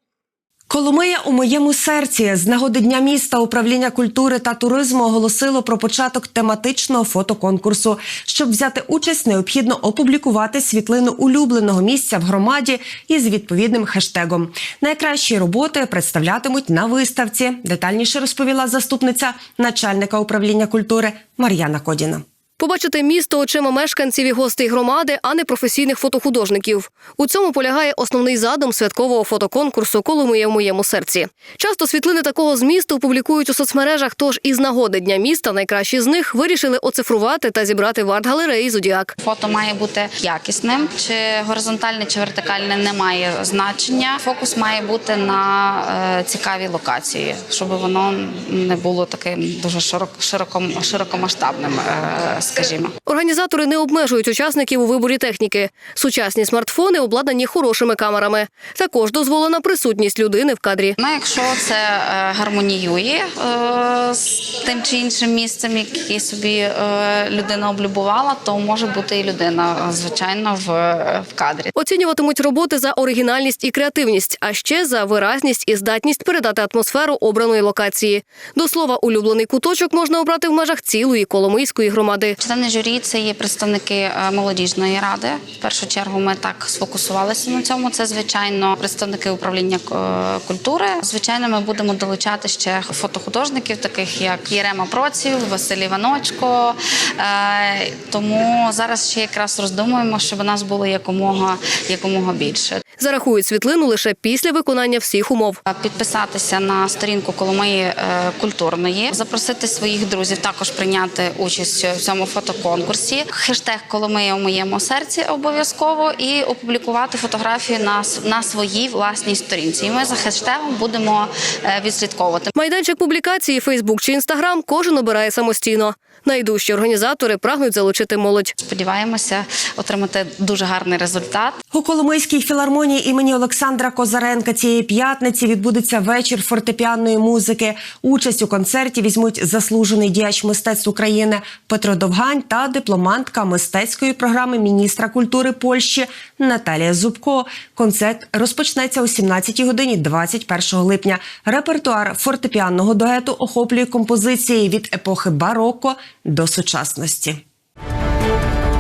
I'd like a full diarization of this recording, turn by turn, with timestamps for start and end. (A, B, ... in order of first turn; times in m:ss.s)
0:00.7-0:22.2 A
0:22.6-0:39.1 B
0:39.2-0:52.9 C
0:53.1-1:01.0 B
1:01.0-1:11.7 C
1:11.8-1:22.4 B
1:22.4-1:42.8 C
1:43.0-1:45.6 B
1:45.7-2:02.5 C
2:02.6-2:08.5 B
2:08.6-2:11.6 C
2:11.7-2:37.4 A